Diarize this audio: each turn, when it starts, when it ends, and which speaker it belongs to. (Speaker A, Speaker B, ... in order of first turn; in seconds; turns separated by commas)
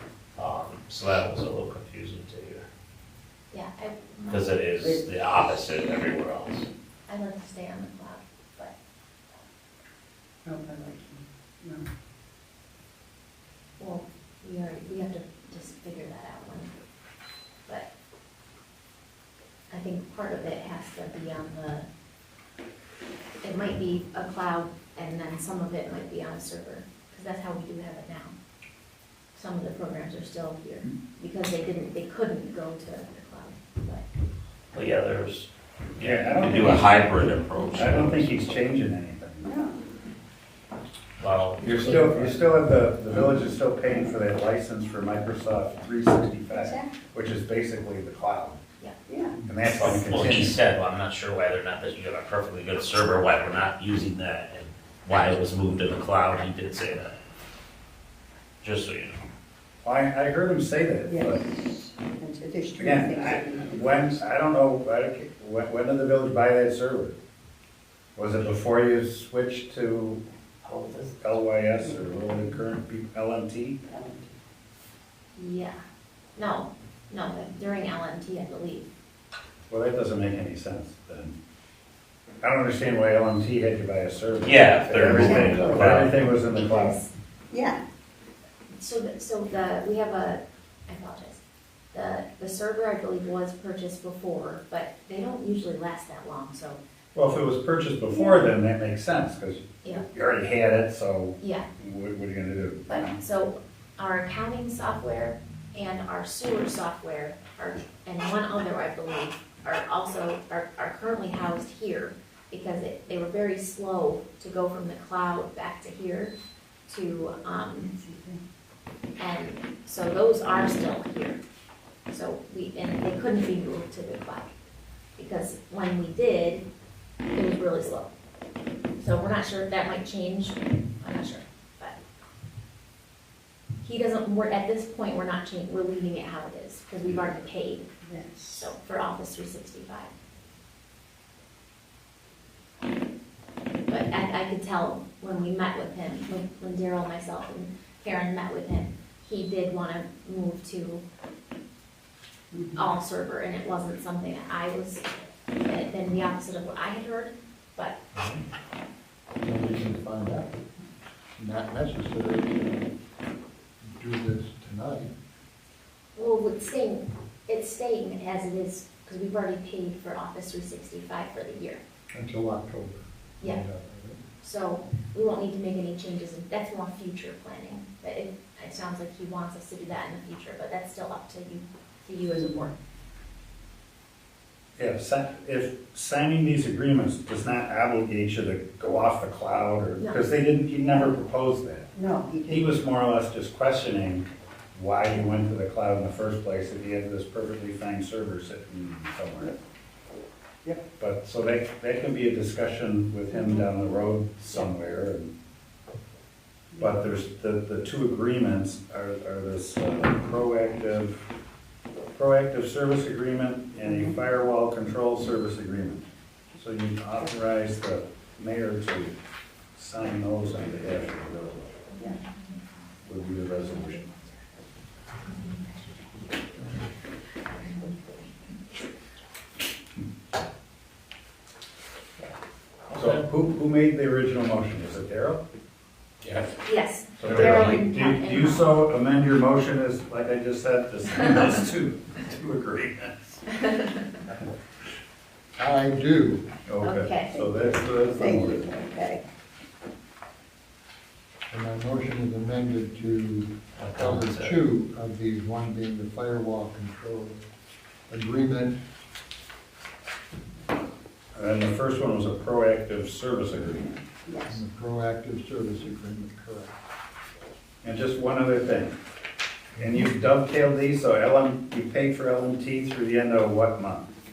Speaker A: 0.4-2.6, Speaker B: 3.5-4.5, Speaker A: 4.3-6.7, Speaker C: 4.8-5.0, Speaker B: 7.1-8.7, Speaker C: 10.5-11.9, Speaker B: 13.8-16.7, Speaker B: 19.7-21.9, Speaker B: 23.4-28.4, Speaker B: 29.4-34.0, Speaker A: 34.7-38.4, Speaker D: 36.0-37.0, Speaker D: 37.7-39.5, Speaker C: 39.4-39.8, Speaker A: 41.2-42.1, Speaker E: 41.6-42.6, Speaker D: 41.6-48.6, Speaker C: 46.5-47.0, Speaker C: 49.1-49.4, Speaker D: 49.5-50.6, Speaker A: 49.6-57.2, Speaker A: 58.6-59.2, Speaker D: 59.8-61.4, Speaker C: 61.1-64.0, Speaker D: 62.8-67.2, Speaker D: 68.2-70.2, Speaker C: 70.6-72.6, Speaker D: 71.2-73.8, Speaker C: 73.9-74.3, Speaker B: 75.4-75.8, Speaker B: 76.4-78.9, Speaker D: 79.7-81.4, Speaker D: 82.4-87.0, Speaker A: 84.4-86.1, Speaker C: 85.1-86.0, Speaker B: 86.2-87.1, Speaker C: 87.5-87.8, Speaker B: 88.8-91.4, Speaker B: 91.9-96.8, Speaker D: 97.2-103.2, Speaker B: 98.1-98.5, Speaker B: 101.4-101.7, Speaker B: 102.9-116.3, Speaker B: 116.9-117.9, Speaker C: 117.8-118.4, Speaker B: 119.2-121.4, Speaker B: 122.1-124.5, Speaker B: 125.2-126.6, Speaker B: 127.3-128.1, Speaker B: 129.0-132.0, Speaker B: 133.8-137.9, Speaker C: 138.0-138.7, Speaker B: 138.6-140.1, Speaker B: 143.9-151.0, Speaker C: 152.5-152.8, Speaker B: 152.8-155.1, Speaker B: 155.6-158.0, Speaker E: 158.1-158.4, Speaker E: 159.4-160.6, Speaker E: 161.4-162.9, Speaker E: 163.8-165.1, Speaker B: 166.2-171.8, Speaker E: 172.1-174.2, Speaker B: 174.4-182.7, Speaker D: 184.8-191.9, Speaker C: 190.8-191.2, Speaker C: 191.9-192.8, Speaker D: 192.5-199.6, Speaker D: 200.9-205.3, Speaker C: 203.3-203.6, Speaker C: 206.7-207.0, Speaker D: 206.8-211.2, Speaker D: 212.2-216.0, Speaker C: 213.8-214.2, Speaker D: 216.6-219.1, Speaker D: 219.8-221.7, Speaker B: 222.0-224.4, Speaker D: 223.1-224.1, Speaker B: 225.2-226.3, Speaker B: 227.5-228.3, Speaker A: 232.9-233.2, Speaker D: 232.9-235.4, Speaker A: 236.2-236.6, Speaker B: 236.6-238.7, Speaker D: 237.2-243.4, Speaker A: 237.2-237.8, Speaker E: 245.6-246.5, Speaker D: 246.7-248.7, Speaker B: 246.8-247.4, Speaker C: 247.3-249.2, Speaker E: 251.5-257.4, Speaker A: 253.8-254.6, Speaker E: 258.1-258.8, Speaker D: 261.3-263.9, Speaker C: 264.3-264.6, Speaker E: 264.5-266.7, Speaker D: 267.8-269.0, Speaker D: 269.8-274.1